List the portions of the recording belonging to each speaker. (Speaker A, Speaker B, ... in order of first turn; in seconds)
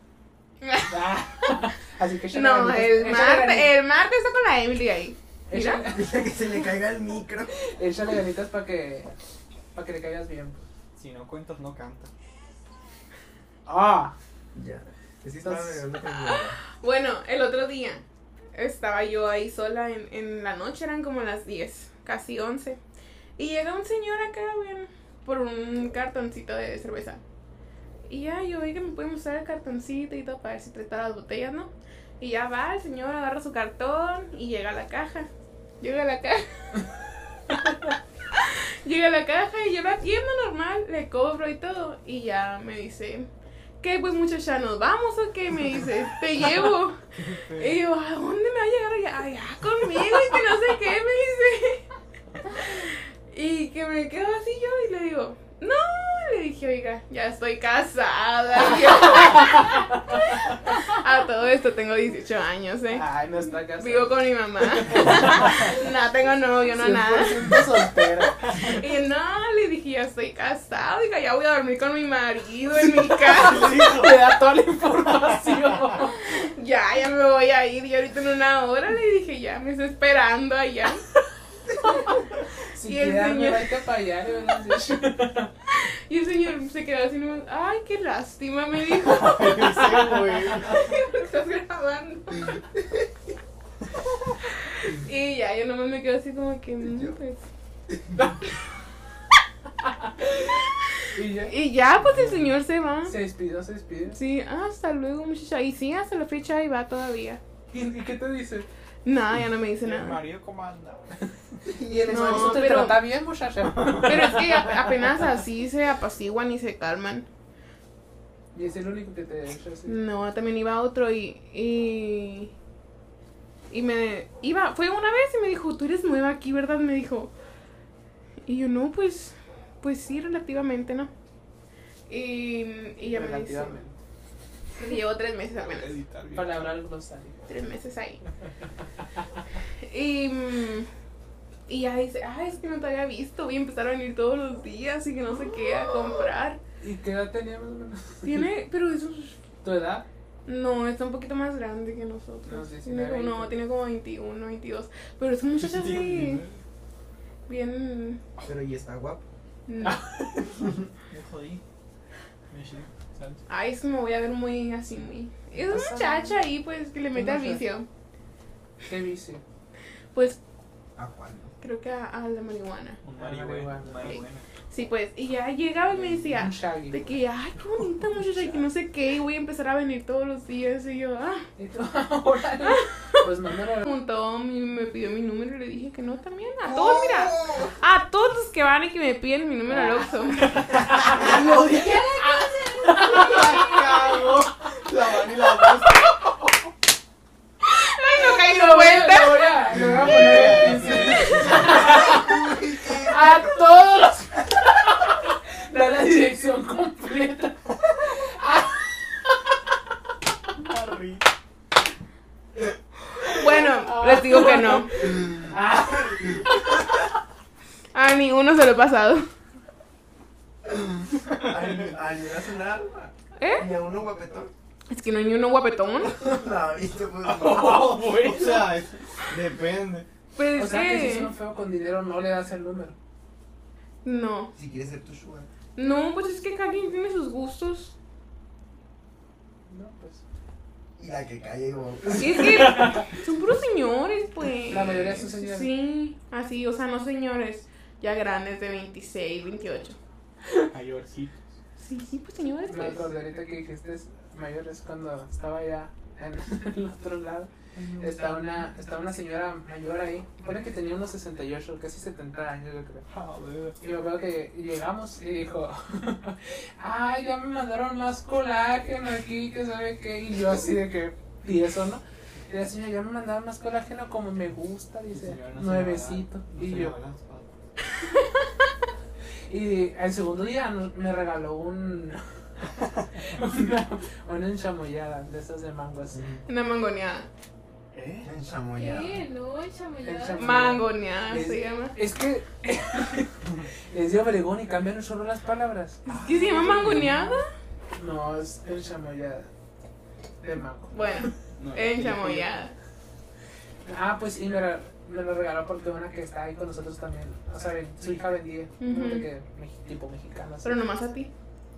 Speaker A: 0.6-1.0, 2.3-6.0, 16.3-18.0, 18.5-22.8, 23.4-27.2, 28.1-36.9, 38.3-43.3, 43.8-51.9, 52.5-63.1, 63.6-67.7, 68.5-74.0, 76.2-81.0, 81.8-82.2, 82.8-83.7, 85.7-92.6, 94.8-97.5, 101.5-103.2, 104.1-107.4, 109.0-110.2, 112.1-113.1, 114.0-117.3, 119.9-122.5, 123.7-127.3, 128.5-131.1, 132.1-133.8, 134.8-136.0, 137.5-138.2, 139.8-140.9, 141.7-146.6, 148.2-149.4, 150.5-156.4, 157.5-158.2, 159.7-160.0, 163.5-167.9, 170.1-170.4, 171.6-173.0, 174.0-181.5, 182.7-183.2, 183.8-190.7, 197.6-199.7, 201.2-201.5, 213.2-215.2, 217.9-219.3, 223.4-223.7, 224.9-226.2, 230.4-231.3, 234.0-234.5, 235.8-237.9, 242.2-250.0, 251.8-253.1, 278.0-278.5, 286.5-287.3, 290.4-292.0, 296.1-297.4, 300.9-302.8, 308.8-309.3, 310.6-311.3
Speaker B: 0.9-3.7, 5.5-6.3, 7.7-9.1, 9.8-10.7, 13.7-14.1, 15.4-15.8, 59.6-59.9, 62.9-64.2, 64.8-65.7, 66.8-68.5, 72.8-76.3, 82.7-85.5, 100.2-100.5, 101.1-101.5, 103.1-104.2, 107.7-108.7, 111.8-114.7, 118.5-120.0, 133.1-134.0, 136.3-137.5, 146.8-148.5, 149.6-150.1, 152.5-153.6, 159.8-160.6, 165.6-166.4, 167.2-167.7, 168.9-169.4, 173.2-174.2, 176.3-177.2, 181.6-183.9, 190.9-193.8, 198.2-209.5, 213.8-216.7, 230.5-233.0, 239.7-240.2, 242.7-243.0, 244.7-245.7, 252.7-263.1, 263.8-277.0, 279.5-282.2, 283.2-286.3, 290.0-296.1, 297.9-299.5, 300.4-301.3, 303.9-310.8
Speaker C: 5.9-7.5, 14.5-16.6, 96.9-97.1, 111.7-112.8, 158.4-159.3, 171.0-171.5, 186.7-187.7, 190.9-196.0, 199.8-203.7, 221.3-224.5, 226.1-228.7, 234.6-235.5, 241.0-242.8, 288.2-289.2
Speaker D: 11.0-12.1, 47.2-47.8, 73.3-74.2, 89.0-90.9, 102.1-102.4, 109.8-111.0, 113.8-114.0, 135.6-136.8, 155.6-156.6, 161.1-161.6, 162.5-163.4, 173.0-174.5, 190.5-191.2, 193.2-194.2, 194.9-195.8, 199.8-201.7, 210.5-211.3, 227.2-230.1, 250.7-251.5, 257.8-258.6, 263.1-263.8, 275.1-277.5, 287.9-288.3, 296.1-297.2, 301.6-302.5
Speaker E: 288.8-290.7